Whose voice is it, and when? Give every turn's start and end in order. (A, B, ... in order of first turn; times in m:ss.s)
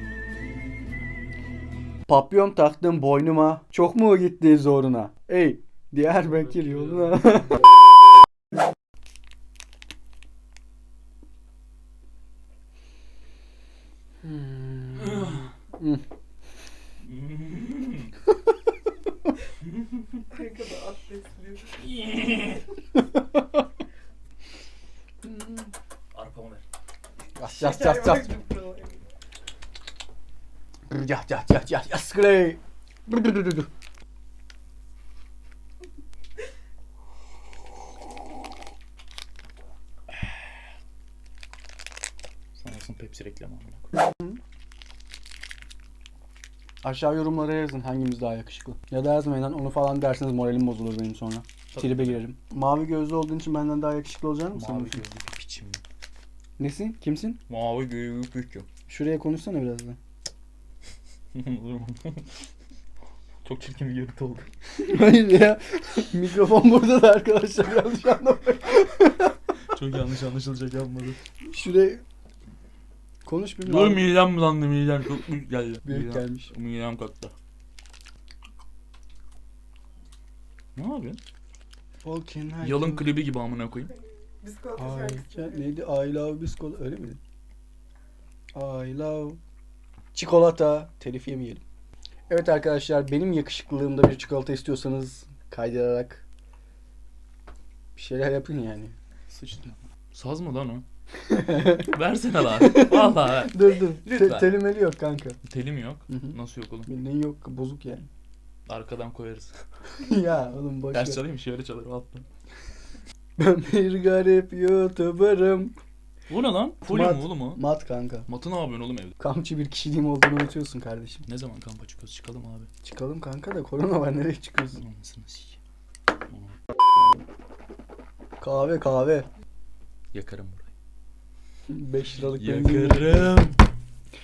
0:02.1-0:07.6 A
0:06.2-0:07.7 B
0:14.2-0:16.0 A
0:15.0-0:15.5 B
0:17.0-0:18.1 B
0:19.6-0:20.3 B
0:20.3-0:21.8 C
0:21.8-0:22.6 B
0:25.2-0:25.7 A
0:26.1-0:26.6 B
0:27.4-0:28.3 A
0:27.5-0:29.0 C
0:30.9-0:33.7 A
0:42.6-0:43.9 B
0:46.8-0:55.0 A
0:51.7-0:52.2 B
0:54.5-0:55.8 B
0:56.6-0:57.4 A
0:57.5-0:58.7 B
0:58.9-1:00.0 A
1:01.3-1:02.3 B
1:03.4-1:04.5 B
1:04.8-1:09.3 A
1:09.7-1:11.2 B
1:11.5-1:12.0 A
1:13.2-1:14.1 A
1:13.6-1:17.3 B
1:15.8-1:16.5 A
1:20.8-1:21.2 B
1:22.0-1:23.1 A
1:22.6-1:23.9 B
1:24.4-1:25.6 C
1:24.8-1:27.2 A
1:28.5-1:29.4 A
1:30.1-1:31.6 A
1:32.3-1:36.2 A
1:38.0-1:38.9 A
1:39.3-1:40.8 B
1:41.3-1:41.9 A
1:41.8-1:44.6 B
1:42.6-1:45.4 A
1:45.4-1:46.9 B
1:46.1-1:46.3 A
1:46.9-1:48.1 A
1:48.7-1:49.6 B
1:50.0-1:51.2 A
1:50.9-1:52.3 B
1:53.4-1:55.7 A
1:56.3-1:57.6 B
1:56.8-1:58.3 A
1:58.3-1:59.2 B
1:59.2-2:01.2 A
2:01.3-2:02.7 B
2:02.8-2:04.8 A
2:04.8-2:05.6 B
2:06.3-2:06.6 B
2:08.4-2:09.3 A
2:10.1-2:10.7 B
2:11.7-2:13.5 A
2:12.3-2:13.6 B